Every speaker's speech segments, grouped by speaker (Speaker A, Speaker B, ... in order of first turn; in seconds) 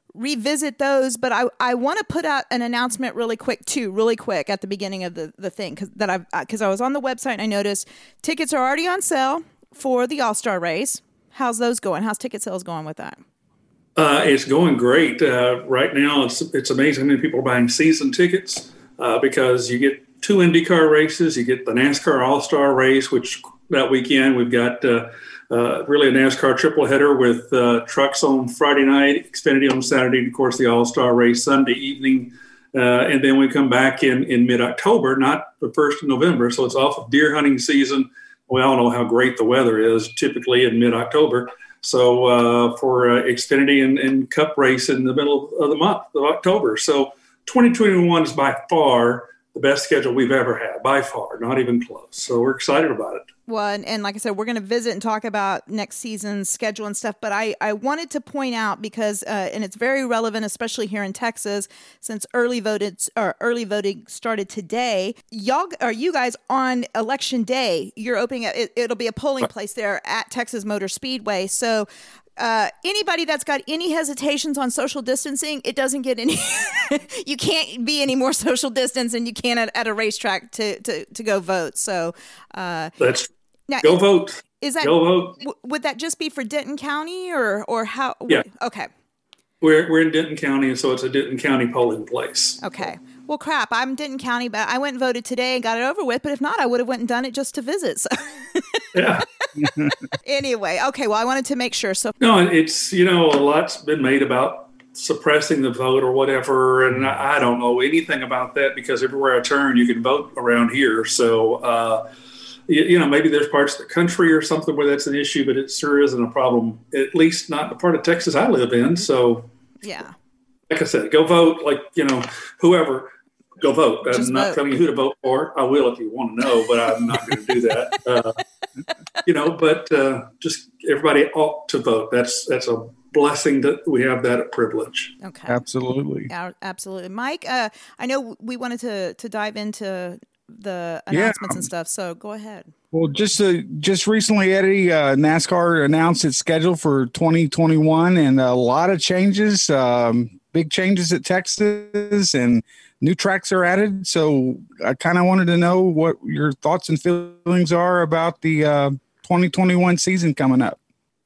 Speaker A: 0.1-13.2, 53.5-82.9, 83.7-84.0, 84.6-88.9, 92.6-98.8, 100.2-102.1, 119.8-120.1, 124.1-124.6, 135.2-135.6, 136.3-142.7
Speaker B: 13.9-53.3, 83.0-83.3, 83.8-85.4, 89.6-92.6, 98.9-99.2, 102.2-112.1, 112.7-119.5, 120.7-128.4, 129.2-135.1
Speaker C: 99.5-99.9, 135.5-136.3, 141.1-141.6, 142.9-160.8